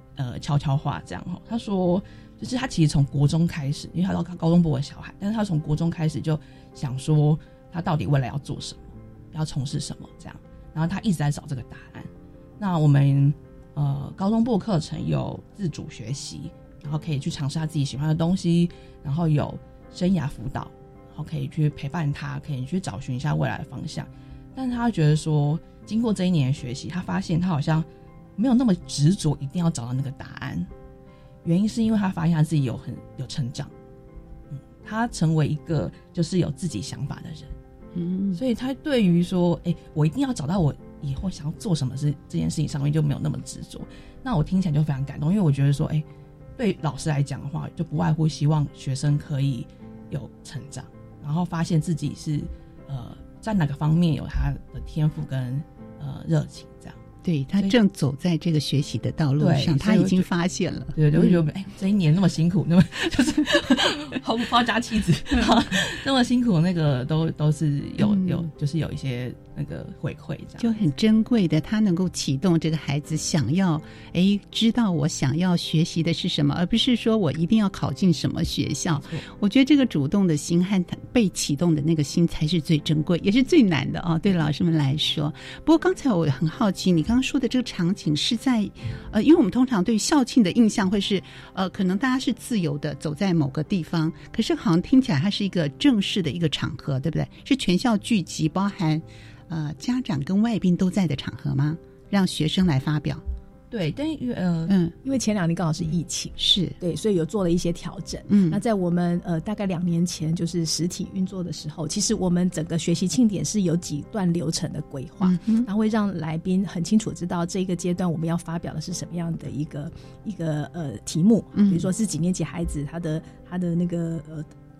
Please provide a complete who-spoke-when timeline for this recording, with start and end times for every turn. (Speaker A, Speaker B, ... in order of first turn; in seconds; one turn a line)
Speaker A: 0.2-30.7
Speaker A: 31.4-33.7
Speaker A: 34.5-37.5
Speaker B: 37.9-38.4
Speaker A: 38.3-46.0
Speaker A: 46.6-57.0
Speaker B: 57.2-61.4
Speaker A: 59.4-60.3
Speaker A: 60.9-70.7
Speaker B: 68.0-68.5
Speaker B: 70.6-103.2
Speaker A: 78.9-79.2
Speaker A: 103.7-104.7
Speaker B: 104.7-104.9
Speaker C: 105.0-124.5
Speaker B: 106.4-106.8
Speaker B: 108.3-108.6
Speaker B: 115.2-115.7
Speaker B: 121.5-121.9